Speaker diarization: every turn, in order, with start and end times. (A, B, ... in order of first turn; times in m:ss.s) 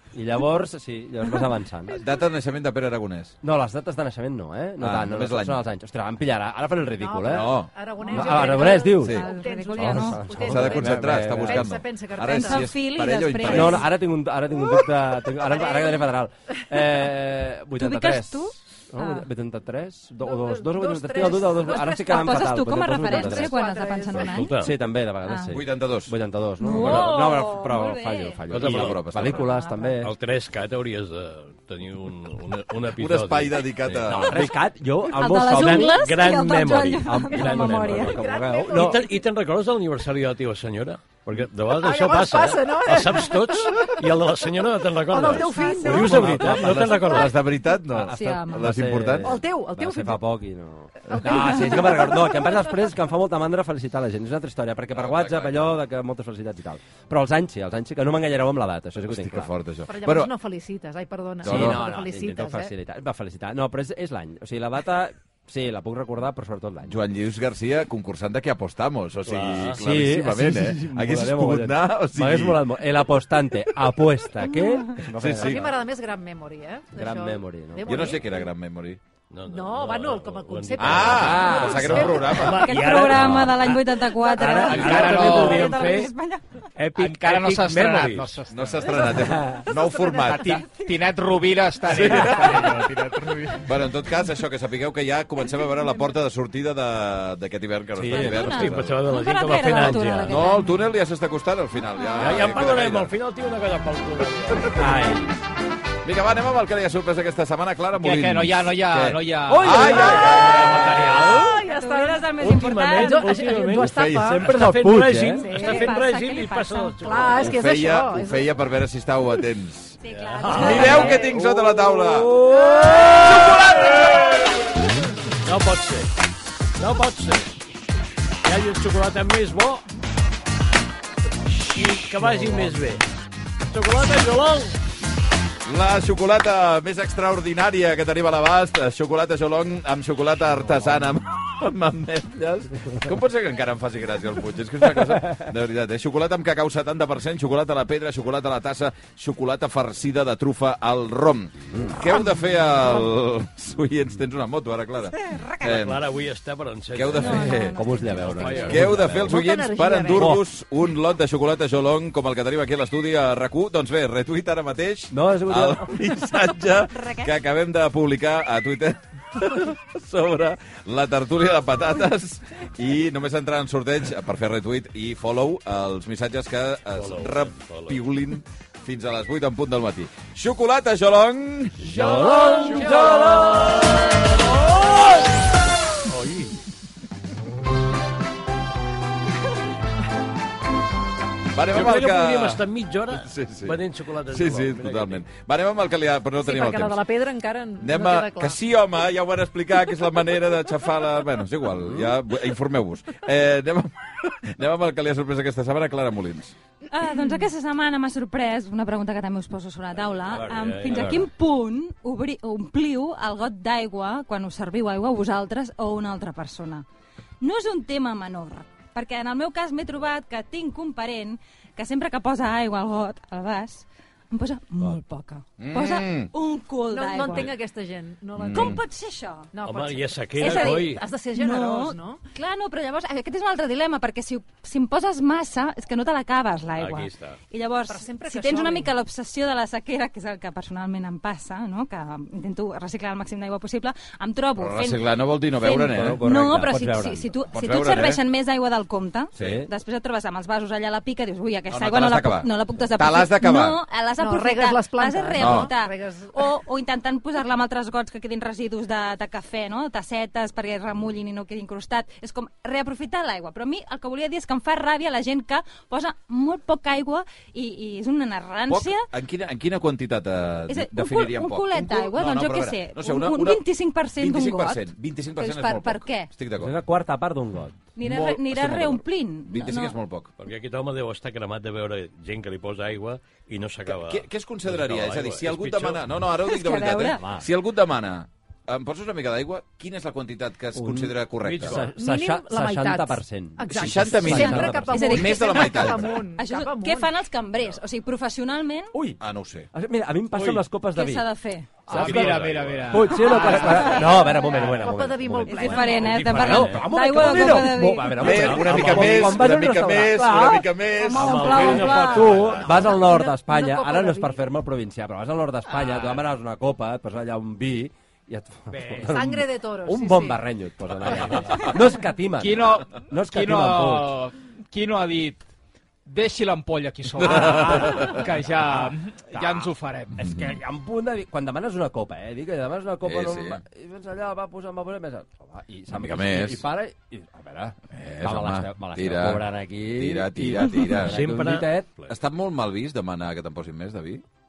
0:00.1-0:02.0 A
0:01.9-0:03.4 B
0:03.4-0:07.6 A
0:04.8-0:05.6 B
0:07.0-0:12.7 C
0:07.2-0:07.7 B
0:08.0-0:10.3 D
0:08.1-0:09.2 A
0:09.8-0:11.7 A
0:10.4-0:13.8 B
0:12.3-0:13.9 D
0:13.4-0:23.5 A
0:15.5-0:16.0 C
0:17.8-0:19.3 D
0:20.2-0:22.5 C
0:21.6-0:24.7 D
0:23.1-0:24.4 C
0:24.2-0:24.7 E
0:24.4-0:30.1 A
0:25.2-0:25.6 D
0:25.5-0:26.2 B
0:26.6-0:28.4 D
0:26.8-0:27.1 E
0:28.5-0:29.0 E
0:28.5-0:29.5 B
0:29.1-0:30.0 D
0:30.0-0:34.5 E
0:32.9-0:34.5 B
0:34.0-0:36.0 A
0:35.1-0:38.2 D
0:35.5-0:38.2 E
0:37.0-0:39.0 A
0:38.0-0:39.1 C
0:38.7-0:47.3 E
0:41.7-0:44.0 C
0:45.1-0:46.4 C
0:45.5-0:45.9 D
0:45.9-0:46.9 A
0:46.0-0:49.3 B
0:47.9-0:59.5 A
0:48.1-0:48.7 D
0:49.2-0:50.2 C
0:51.0-0:52.4 C
0:54.9-0:55.8 B
0:59.0-1:00.3 B
0:59.9-1:02.7 C
1:01.4-1:01.8 B
1:01.4-1:07.0 A
1:06.9-1:12.6 B
1:09.2-1:09.8 E
1:09.5-1:15.7 A
1:15.2-1:15.6 B
1:15.4-1:18.4 C
1:16.9-1:18.2 A
1:17.8-1:19.0 B
1:19.3-1:26.1 E
1:19.5-1:22.6 C
1:20.8-1:22.7 B
1:21.0-1:22.2 A
1:22.0-1:26.4 D
1:24.3-1:25.7 A
1:24.8-1:25.7 F
1:26.8-1:28.3 E
1:27.0-1:28.9 F
1:28.5-1:30.7 B
1:29.0-1:29.7 A
1:29.8-1:30.3 C
1:30.1-1:33.7 F
1:31.8-1:32.8 B
1:33.6-1:38.9 B
1:37.9-1:38.7 A
1:38.1-1:40.8 D
1:38.4-1:40.4 E
1:40.3-1:43.1 B
1:42.2-1:44.9 E
1:44.7-1:45.3 A
1:46.0-1:51.0 B
1:47.9-1:51.5 F
1:49.5-1:50.8 A
1:50.6-1:51.5 E
1:51.0-1:52.3 C
1:51.2-1:53.4 D
1:52.4-1:53.9 E
1:52.9-1:54.6 C
1:53.8-1:55.5 A
1:53.8-1:54.5 B
1:54.4-1:57.5 E
1:55.4-1:56.0 C
1:55.5-1:57.3 D
1:57.0-1:58.5 C
1:57.4-2:00.0 B
2:00.0-2:01.3 D
2:00.1-2:01.3 E
2:00.5-2:02.4 B
2:00.5-2:03.6 A
2:03.2-2:04.3 B
2:05.4-2:06.1 E
2:06.8-2:07.6 E
2:08.4-2:09.8 E
2:11.7-2:13.0 E
2:13.7-2:14.8 E
2:15.6-2:36.0 B
2:35.2-2:35.6 D
2:35.6-2:37.5 E
2:36.9-3:01.9 B
2:37.2-2:38.8 D
2:37.7-2:39.2 A
2:38.2-2:39.3 E
2:39.2-2:40.4 C
2:40.1-2:40.4 A
2:45.1-2:46.1 A
2:46.9-2:47.3 D
2:56.9-2:58.0 E
3:01.8-3:04.1 E
3:01.9-3:04.0 A
3:06.1-3:06.6 E
3:11.5-3:17.0 B
3:11.7-3:15.2 E
3:16.4-3:18.6 C
3:17.8-3:26.5 B
3:21.8-3:22.1 A
3:26.9-3:36.8 D
3:30.3-3:31.2 E
3:30.3-3:31.3 A
3:37.4-3:47.5 D
3:45.6-3:46.3 B
3:46.9-3:48.8 C
3:48.4-3:48.8 B
3:48.5-3:49.5 D
3:49.5-3:52.2 C
3:49.6-3:51.0 E
3:50.4-4:29.1 D
3:56.8-3:57.4 E
3:57.9-3:58.9 C
4:04.6-4:06.2 B
4:05.6-4:07.3 A
4:07.5-4:08.2 B
4:09.3-4:09.7 A
4:09.4-4:09.6 B
4:11.7-4:13.8 B
4:14.2-4:16.5 C
4:15.4-4:15.7 B
4:28.7-4:33.6 B
4:30.7-4:36.3 D
4:34.1-4:36.7 B
4:36.6-4:37.8 A
4:37.9-4:40.0 D
4:38.0-4:40.3 B
4:40.4-4:46.1 E
4:43.9-4:51.8 B
4:46.4-4:47.2 D
4:47.1-4:47.4 A
4:50.7-4:55.3 A
4:51.4-4:51.8 E
4:52.0-4:57.1 C
4:53.7-4:56.2 B
4:54.3-4:58.9 D
4:58.9-4:59.2 A
4:59.2-4:59.7 B
4:59.7-5:01.2 A
5:00.4-5:00.6 E
5:00.9-5:01.9 D
5:01.9-5:24.2 A
5:01.9-5:03.9 E
5:01.9-5:04.1 F
5:03.7-5:04.0 D
5:04.5-5:04.8 E
5:04.5-5:06.1 C
5:05.5-5:08.5 D
5:05.9-5:07.6 E
5:08.2-5:12.0 B
5:08.2-5:09.5 E
5:11.0-5:12.5 D
5:11.1-5:12.7 E
5:12.6-5:14.4 C
5:15.8-5:16.1 F
5:19.1-5:20.4 C
5:22.4-5:25.4 F
5:26.0-5:30.3 F
5:27.2-5:28.2 B
5:28.8-5:41.9 A
5:33.0-5:33.6 B
5:35.9-5:36.6 B
5:37.9-5:41.2 B
5:41.0-5:42.1 E
5:42.1-5:44.2 B